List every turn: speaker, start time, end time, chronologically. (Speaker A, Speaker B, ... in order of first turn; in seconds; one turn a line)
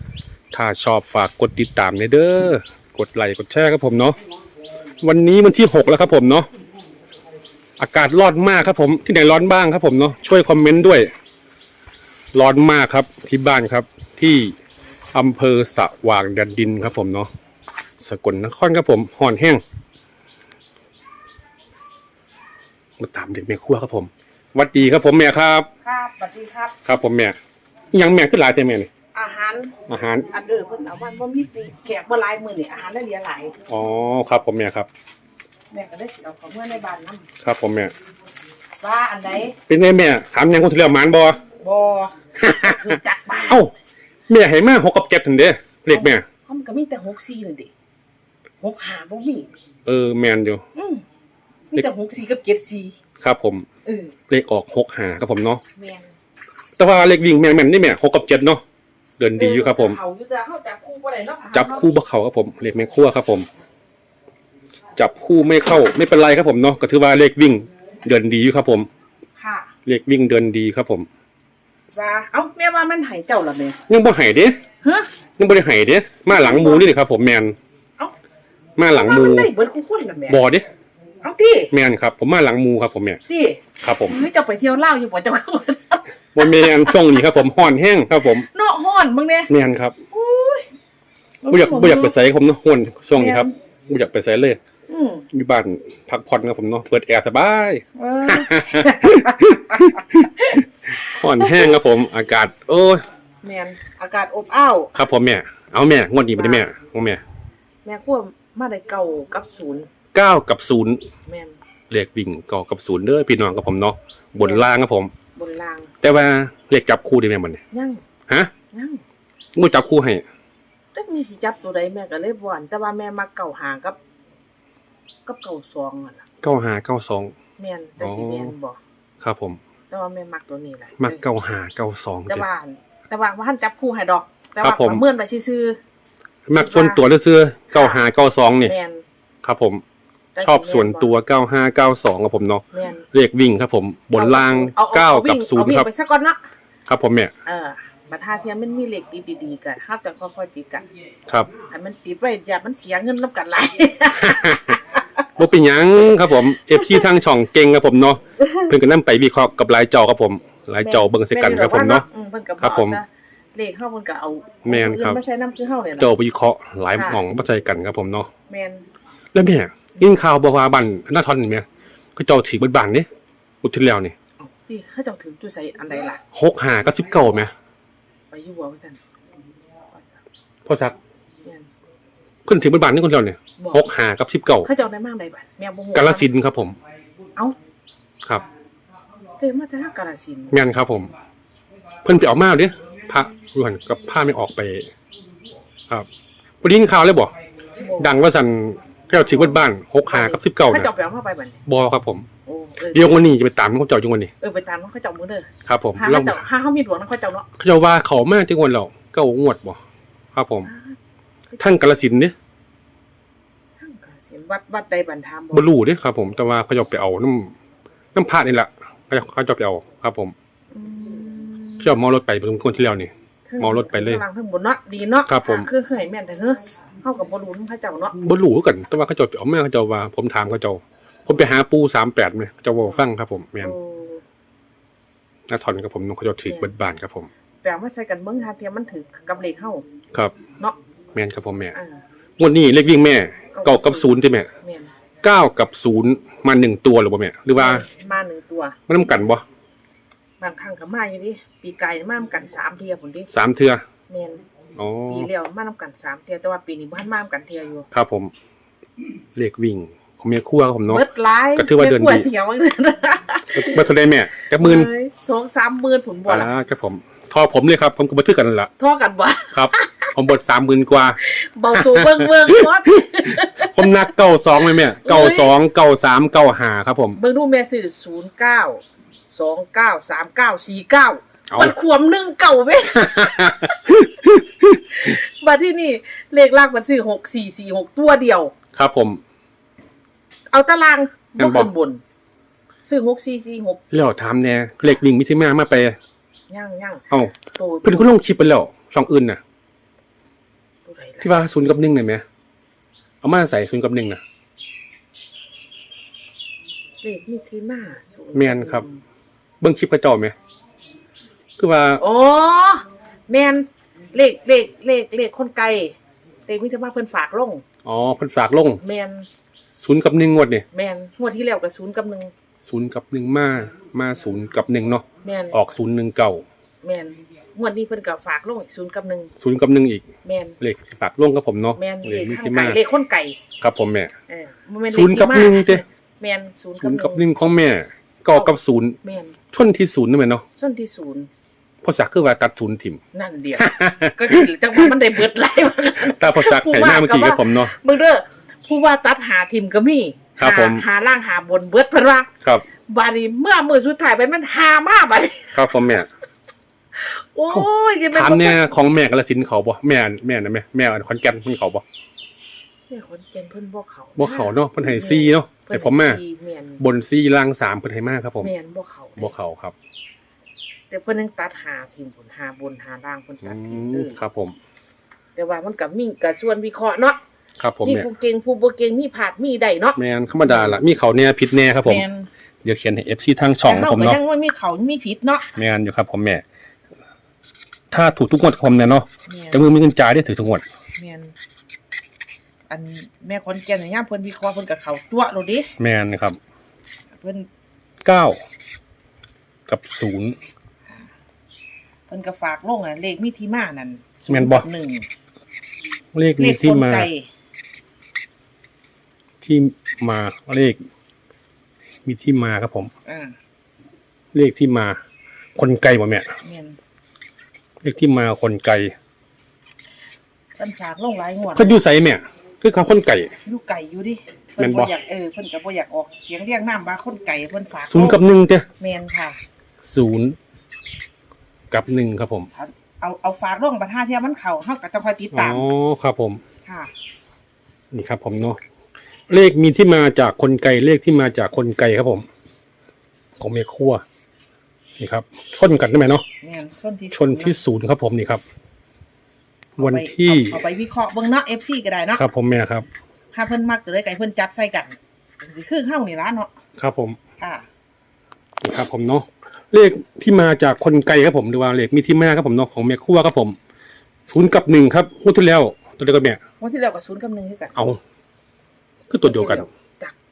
Speaker A: 0.5-4.2
Speaker A: 5.0-6.5
Speaker A: 7.8-11.1
Speaker A: 12.3-14.5
Speaker A: 15.1-17.3
Speaker A: 18.0-19.6
Speaker A: 23.0-25.7
Speaker B: 25.8-26.7
Speaker A: 26.8-27.4
Speaker A: 27.9-28.9
Speaker B: 29.1-33.5
Speaker A: 29.9-30.3
Speaker A: 33.7-34.9
Speaker B: 35.7-37.3
Speaker A: 37.4-37.9
Speaker B: 38.8-39.6
Speaker A: 39.7-41.4
Speaker B: 41.6-43.7
Speaker A: 42.4-43.7
Speaker A: 44.3-46.2
Speaker B: 45.9-47.7
Speaker B: 48.6-49.5
Speaker A: 49.9-50.6
Speaker B: 50.7-51.0
Speaker B: 51.7-53.0
Speaker A: 53.2-53.6
Speaker B: 53.8-54.1
Speaker A: 54.3-55.6
Speaker B: 55.8-56.1
Speaker A: 56.8-58.6
Speaker A: 59.2-60.0
Speaker B: 59.4-61.9
Speaker A: 61.5-63.5
Speaker A: 65.0-68.9
Speaker B: 69.4-69.7
Speaker A: 69.8-71.1
Speaker B: 71.9-73.8
Speaker A: 73.9-74.6
Speaker B: 74.8-75.1
Speaker A: 75.4-77.6
Speaker B: 76.3-76.9
Speaker A: 78.8-79.5
Speaker B: 78.9-80.4
Speaker A: 80.3-80.7
Speaker B: 81.2-81.7
Speaker A: 81.7-83.2
Speaker B: 83.3-87.2
Speaker A: 83.8-84.2
Speaker A: 86.3-88.5
Speaker B: 88.4-89.5
Speaker A: 89.5-90.0
Speaker B: 90.1-90.7
Speaker B: 91.4-92.1
Speaker A: 91.5-94.6
Speaker B: 93.1-93.5
Speaker B: 94.9-95.3
Speaker A: 95.3-100.3
Speaker B: 97.9-100.6
Speaker A: 100.9-103.0
Speaker B: 101.4-101.7
Speaker B: 103.4-104.9
Speaker A: 104.9-107.2
Speaker B: 106.3-106.7
Speaker B: 107.8-109.9
Speaker A: 110.1-111.0
Speaker B: 111.3-111.6
Speaker A: 111.9-115.1
Speaker B: 114.4-114.7
Speaker B: 115.3-115.9
Speaker A: 116.0-117.6
Speaker B: 117.7-118.0
Speaker A: 118.3-118.5
Speaker B: 118.7-119.0
Speaker A: 119.5-120.2
Speaker B: 120.9-124.0
Speaker B: 125.2-126.2
Speaker A: 126.4-127.3
Speaker B: 127.6-128.8
Speaker A: 128.0-128.5
Speaker A: 129.2-129.6
Speaker B: 129.9-131.2
Speaker A: 131.0-132.4
Speaker B: 132.3-135.8
Speaker A: 134.6-135.0
Speaker A: 136.5-138.7
Speaker B: 136.5-137.0
Speaker B: 137.7-138.0
Speaker B: 138.6-139.0
Speaker A: 139.4-139.8
Speaker B: 140.3-141.1
Speaker A: 140.4-145.9
Speaker B: 142.7-143.1
Speaker B: 144.1-146.4
Speaker A: 146.9-147.3
Speaker B: 147.4-150.8
Speaker B: 151.7-155.0
Speaker A: 154.2-154.8
Speaker A: 155.3-162.1
Speaker B: 160.8-166.1
Speaker A: 162.6-163.0
Speaker A: 164.6-165.2
Speaker A: 166.0-168.3
Speaker B: 166.9-167.2
Speaker B: 168.5-168.8
Speaker A: 169.3-173.1
Speaker A: 173.6-174.1
Speaker B: 174.4-176.2
Speaker A: 176.3-177.5
Speaker B: 178.3-179.0
Speaker A: 180.7-180.9
Speaker A: 182.4-184.7
Speaker B: 184.6-186.3
Speaker A: 185.9-186.8
Speaker B: 189.4-190.5
Speaker A: 190.5-191.1
Speaker A: 192.0-194.9
Speaker A: 196.6-197.3
Speaker B: 197.8-198.1
Speaker A: 198.0-200.9
Speaker B: 199.1-201.6
Speaker A: 201.7-202.3
Speaker B: 202.4-203.2
Speaker A: 202.9-204.3
Speaker B: 204.4-207.5
Speaker A: 205.7-206.4
Speaker A: 207.6-209.8
Speaker A: 210.3-210.7
Speaker B: 210.6-210.9
Speaker B: 211.5-211.9
Speaker A: 211.6-212.3
Speaker B: 213.8-215.7
Speaker A: 215.5-217.5
Speaker A: 218.1-220.3
Speaker B: 220.7-221.9
Speaker A: 221.8-224.2
Speaker B: 223.5-228.2
Speaker A: 225.3-225.7
Speaker A: 228.2-233.7
Speaker B: 233.6-234.2
Speaker A: 235.5-237.3
Speaker B: 237.6-239.8
Speaker A: 241.1-241.7
Speaker B: 241.7-242.0
Speaker A: 242.4-244.5
Speaker B: 243.5-244.9
Speaker A: 245.2-247.8
Speaker B: 247.6-248.8
Speaker A: 248.9-249.4
Speaker B: 250.4-253.3
Speaker A: 253.3-253.8
Speaker B: 254.1-254.4
Speaker A: 254.8-255.3
Speaker B: 255.1-257.9
Speaker A: 257.9-258.3
Speaker A: 259.4-261.0
Speaker B: 260.9-263.9
Speaker A: 261.6-262.3
Speaker A: 263.5-264.9
Speaker B: 264.6-266.5
Speaker A: 266.3-268.7
Speaker B: 268.8-270.1
Speaker A: 269.5-271.2
Speaker B: 271.2-273.9
Speaker A: 271.7-272.6
Speaker A: 273.6-277.2
Speaker B: 275.0-275.5
Speaker B: 277.1-284.0
Speaker A: 281.5-281.8
Speaker A: 283.1-284.7
Speaker B: 284.9-288.5
Speaker A: 288.7-289.2
Speaker B: 290.5-292.0
Speaker A: 291.4-291.7
Speaker B: 292.9-293.8
Speaker A: 293.9-296.0
Speaker B: 296.5-298.1
Speaker A: 297.1-299.4
Speaker B: 300.9-301.4
Speaker A: 301.2-302.2
Speaker A: 303.2-304.2
Speaker B: 307.0-309.0
Speaker A: 308.3-308.8
Speaker A: 309.6-310.3
Speaker A: 311.6-312.0
Speaker B: 312.0-315.9
Speaker B: 316.4-317.6
Speaker A: 317.8-318.8
Speaker B: 318.8-319.3
Speaker A: 319.7-320.6
Speaker B: 320.7-322.3
Speaker A: 322.6-326.4
Speaker B: 325.2-325.6
Speaker B: 326.8-329.3
Speaker A: 329.4-330.0
Speaker B: 330.2-330.6
Speaker A: 330.6-332.8
Speaker B: 331.8-333.4
Speaker A: 333.6-334.1
Speaker B: 334.3-337.2
Speaker A: 334.9-335.8
Speaker A: 336.8-339.0
Speaker B: 339.0-339.3
Speaker A: 339.5-340.4
Speaker B: 340.6-341.3
Speaker A: 341.8-343.0
Speaker B: 343.1-352.3
Speaker A: 343.6-344.4
Speaker A: 346.0-347.7
Speaker A: 350.4-350.8
Speaker B: 352.9-355.7
Speaker A: 355.5-356.1
Speaker B: 356.9-358.6
Speaker A: 357.5-361.8
Speaker B: 362.9-366.8
Speaker A: 364.2-366.2
Speaker A: 366.8-368.5
Speaker B: 368.4-369.3
Speaker A: 369.2-369.7
Speaker B: 370.9-374.2
Speaker A: 373.4-374.6
Speaker B: 375.4-377.2
Speaker A: 377.6-378.1
Speaker B: 377.8-380.8
Speaker A: 379.9-382.0
Speaker B: 381.8-382.3
Speaker A: 382.6-384.2
Speaker B: 383.6-385.5
Speaker A: 385.6-386.4
Speaker A: 387.9-390.6
Speaker B: 389.3-389.6
Speaker B: 391.0-391.3
Speaker B: 392.7-395.7
Speaker A: 395.8-396.4
Speaker B: 397.1-397.5
Speaker A: 398.0-398.4
Speaker A: 399.7-400.4
Speaker B: 402.1-405.1
Speaker A: 404.3-404.7
Speaker A: 406.1-407.1
Speaker B: 406.4-407.3
Speaker A: 409.4-410.8
Speaker A: 412.0-412.9
Speaker B: 413.1-413.3
Speaker A: 414.3-415.0
Speaker A: 415.6-416.3
Speaker B: 416.4-416.8
Speaker A: 417.8-418.9
Speaker B: 420.6-421.8
Speaker A: 421.5-423.3
Speaker B: 423.4-428.2
Speaker A: 424.6-424.9
Speaker A: 427.8-428.7
Speaker B: 428.8-429.4
Speaker A: 429.8-430.4
Speaker A: 431.7-432.5
Speaker B: 432.5-435.6
Speaker A: 435.3-436.4
Speaker B: 436.6-436.9
Speaker A: 437.9-438.6
Speaker A: 439.3-442.2
Speaker A: 443.4-444.0
Speaker A: 445.0-446.2
Speaker B: 446.4-447.6
Speaker A: 447.1-448.4
Speaker A: 449.8-450.6
Speaker B: 449.8-452.2
Speaker A: 452.2-452.9
Speaker B: 453.3-456.5
Speaker A: 456.8-457.2
Speaker A: 458.6-463.6
Speaker A: 464.3-466.4
Speaker B: 466.6-467.8
Speaker A: 467.7-468.0
Speaker A: 469.1-469.7
Speaker B: 469.2-470.1